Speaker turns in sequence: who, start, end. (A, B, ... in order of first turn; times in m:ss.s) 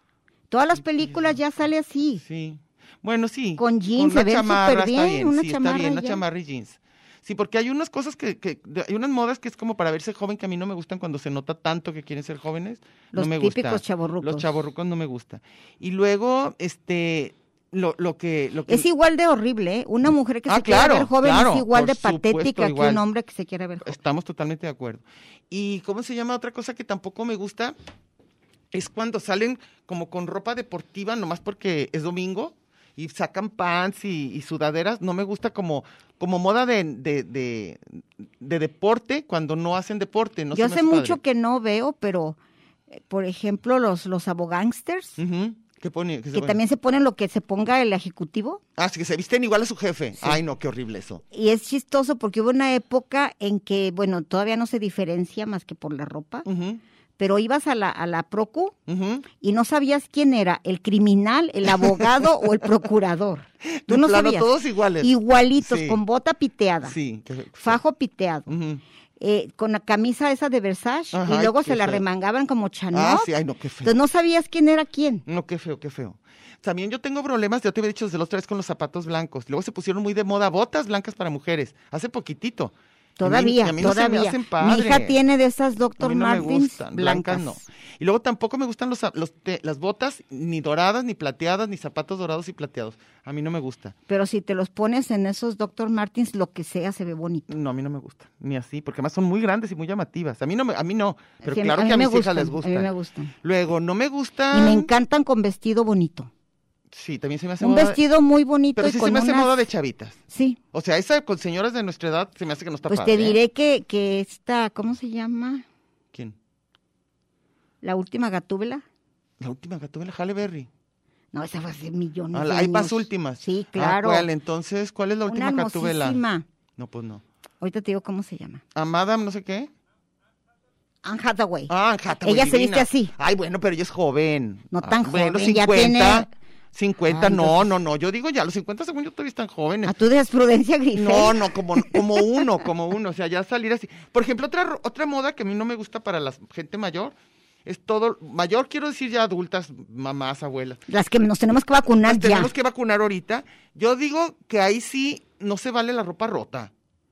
0:00.5-0:02.2 A
0:01.0-0:01.4 B
0:02.2-0:18.9 B
0:03.6-0:06.2 A
0:13.1-0:14.5 A
0:18.7-0:24.0 A
0:20.5-0:23.0 B
0:23.8-0:27.8 B
0:28.7-0:41.2 B
0:40.5-0:42.4 A
0:43.0-0:45.2 A
0:45.2-0:46.6 B
0:46.3-0:48.6 A
0:48.8-0:51.2 B
0:51.3-0:56.4 A
0:56.4-0:56.8 B
0:57.2-0:58.7 A
0:58.9-0:59.2 B
0:59.4-1:04.5 A
1:01.7-1:02.0 B
1:03.7-1:06.0 B
1:05.0-1:07.0 A
1:06.8-1:07.8 B
1:07.6-1:08.5 A
1:08.5-1:08.8 B
1:09.2-1:13.3 A
1:11.1-1:12.0 B
1:12.9-1:13.9 B
1:13.8-1:15.2 A
1:15.2-1:25.2 B
1:23.2-1:27.6 A
1:26.0-1:33.9 B
1:34.1-1:37.5 A
1:37.5-1:42.9 B
1:41.4-1:43.3 A
1:43.4-1:44.9 B
1:44.5-1:46.3 A
1:46.9-1:48.0 B
1:47.6-1:49.5 A
1:48.8-1:50.2 B
1:50.3-1:50.6 A
1:50.7-1:53.4 B
1:52.9-1:55.6 A
1:57.8-1:58.8 A
1:59.4-2:00.7 B
2:01.3-2:04.3 A
2:02.3-2:06.2 B
2:05.3-2:06.4 A
2:06.8-2:07.2 B
2:07.6-2:08.6 A
2:08.7-2:09.7 B
2:11.0-2:13.1 A
2:11.7-2:19.9 B
2:14.7-2:16.3 A
2:17.1-2:17.7 A
2:19.8-2:22.0 A
2:20.9-2:30.8 B
2:30.9-2:32.5 A
2:32.0-2:36.7 B